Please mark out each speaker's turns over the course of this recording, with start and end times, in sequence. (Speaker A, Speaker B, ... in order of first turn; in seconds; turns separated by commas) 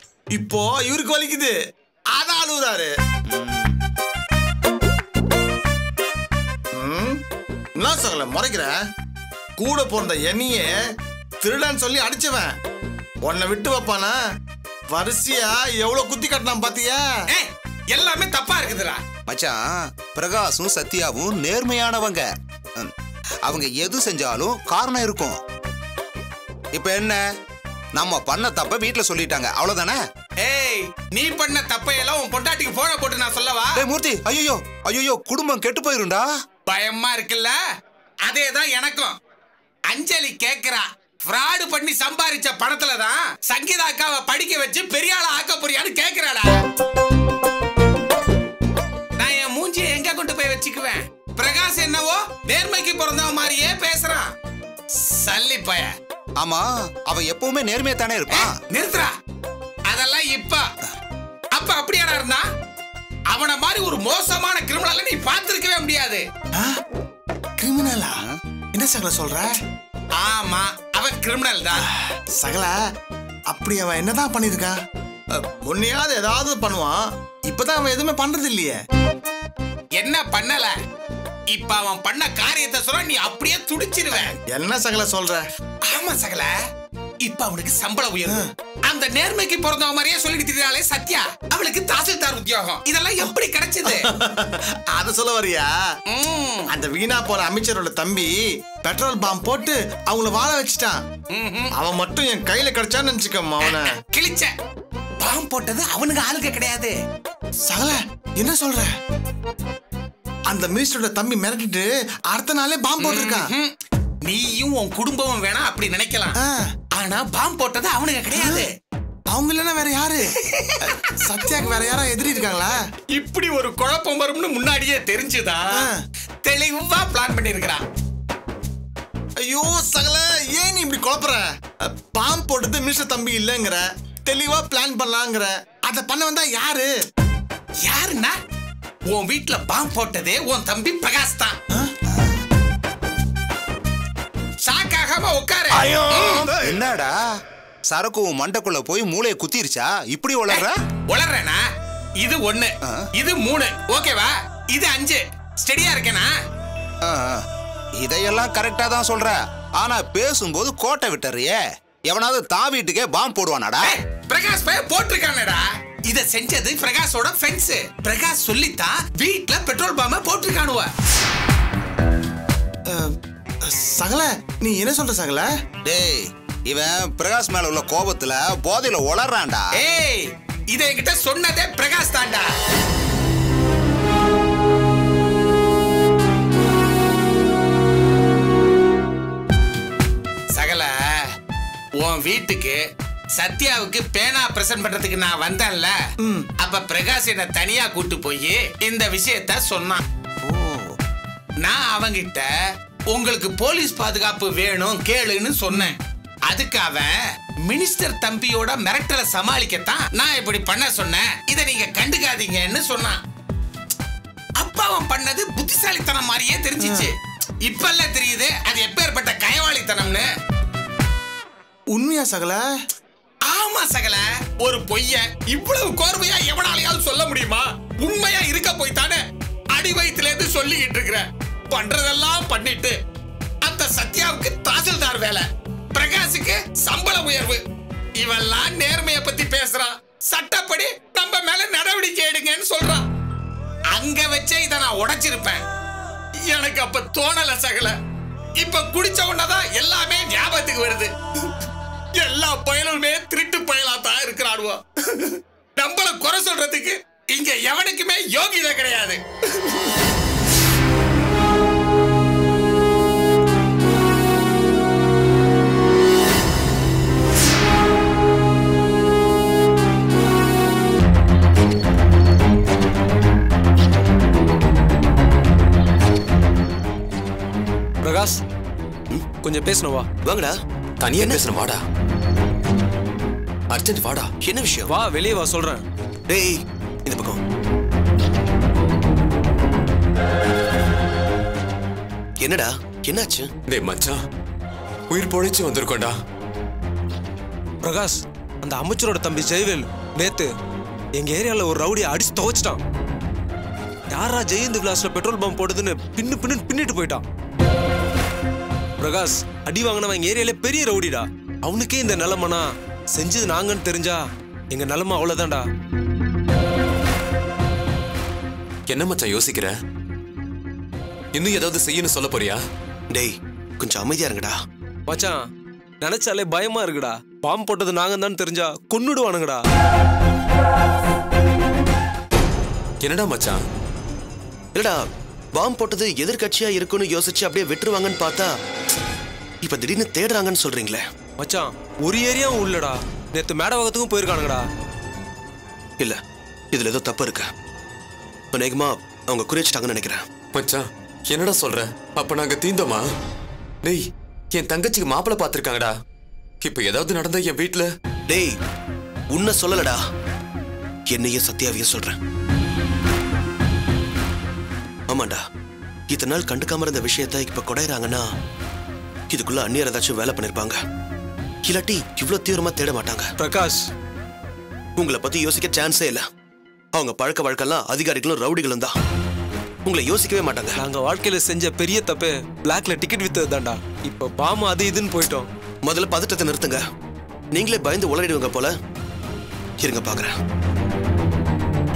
Speaker A: 0.3-1.5, Speaker A: 2.1-2.9, Speaker B: 3.3-3.7, Speaker A: 6.7-7.2, Speaker A: 7.8-8.7, Speaker A: 9.6-10.7, Speaker A: 11.4-12.5, Speaker A: 13.2-14.2, Speaker A: 14.9-17.1, Speaker C: 17.3-19.0, Speaker B: 19.3-22.2, Speaker B: 23.4-25.4, Speaker B: 26.7-27.2, Speaker B: 27.9-30.0, Speaker C: 30.4-33.8, Speaker B: 33.8-36.2, Speaker C: 36.7-37.5, Speaker C: 38.3-39.1, Speaker C: 39.9-46.6, Speaker C: 49.2-54.3, Speaker C: 55.0-55.9, Speaker B: 56.4-58.5, Speaker C: 58.3-59.1, Speaker C: 59.9-60.7, Speaker C: 61.5-62.4, Speaker C: 63.3-66.2, Speaker A: 67.6-68.2, Speaker A: 68.7-69.5, Speaker C: 70.2-71.8, Speaker A: 71.8-72.8, Speaker A: 73.5-74.8, Speaker A: 75.3-78.8, Speaker C: 80.0-80.8, Speaker C: 81.5-84.3, Speaker A: 84.1-85.4, Speaker C: 85.8-86.5, Speaker C: 87.2-94.1, Speaker A: 93.8-95.7, Speaker C: 96.1-96.7, Speaker A: 96.7-101.0, Speaker C: 101.3-101.7, Speaker A: 101.8-103.9, Speaker C: 103.6-104.5, Speaker C: 105.2-107.0, Speaker A: 107.7-108.9, Speaker A: 110.5-113.5, Speaker C: 113.0-113.7, Speaker C: 114.2-116.3, Speaker A: 116.4-116.7, Speaker C: 116.9-118.7, Speaker A: 118.3-118.6, Speaker A: 119.3-122.8, Speaker C: 120.4-121.1, Speaker C: 123.1-125.9, Speaker C: 126.4-127.8, Speaker A: 129.4-136.9, Speaker C: 137.9-138.4, Speaker C: 139.1-141.6, Speaker C: 144.6-146.5, Speaker A: 145.9-146.6, Speaker B: 146.6-147.1, Speaker B: 147.9-150.8, Speaker C: 150.5-151.6, Speaker C: 152.2-156.3, Speaker B: 157.0-157.4, Speaker B: 158.0-163.9, Speaker C: 163.8-170.9, Speaker A: 172.9-175.5, Speaker B: 175.8-179.7, Speaker C: 179.8-182.5, Speaker C: 190.6-191.3, Speaker C: 192.0-192.8, Speaker C: 193.3-195.9, Speaker C: 196.6-200.0, Speaker A: 200.5-200.8, Speaker C: 201.6-202.5, Speaker C: 203.1-206.0, Speaker C: 206.5-213.2, Speaker C: 214.6-220.2, Speaker A: 216.8-217.1, Speaker A: 221.9-222.6, Speaker C: 223.5-229.2, Speaker C: 229.7-232.9, Speaker C: 233.6-237.6, Speaker C: 238.2-243.1, Speaker C: 243.9-245.6, Speaker C: 246.5-247.9, Speaker C: 248.6-251.1, Speaker C: 252.2-259.9, Speaker D: 278.0-278.4, Speaker D: 279.4-280.1, Speaker E: 280.2-280.6, Speaker F: 281.0-281.8, Speaker F: 283.7-284.3, Speaker E: 284.4-284.9, Speaker D: 284.9-285.8, Speaker E: 286.3-287.4, Speaker E: 292.4-293.5, Speaker F: 293.7-294.2, Speaker F: 295.1-296.1, Speaker D: 297.8-300.5, Speaker D: 301.2-302.8, Speaker D: 304.1-307.2, Speaker D: 309.0-314.2, Speaker D: 314.7-315.6, Speaker F: 318.9-319.7, Speaker F: 321.3-322.6, Speaker E: 323.1-324.6, Speaker D: 325.1-325.4, Speaker D: 326.0-329.6, Speaker F: 333.0-333.6, Speaker E: 334.7-335.0, Speaker E: 335.5-338.5, Speaker E: 339.6-341.0, Speaker D: 341.4-344.6, Speaker E: 346.7-347.5, Speaker E: 348.5-350.3, Speaker F: 350.5-353.0, Speaker F: 353.8-355.9, Speaker F: 356.6-357.9, Speaker E: 358.3-358.5, Speaker E: 359.3-360.0, Speaker E: 361.1-362.2, Speaker E: 365.1-365.4, Speaker E: 366.1-368.3, Speaker E: 369.3-370.8, Speaker E: 371.6-373.3, Speaker D: 373.4-373.8, Speaker E: 375.0-376.2, Speaker E: 376.9-378.9, Speaker E: 379.9-380.8, Speaker D: 380.8-385.4, Speaker E: 385.9-386.8, Speaker E: 387.5-388.7, Speaker E: 389.8-390.4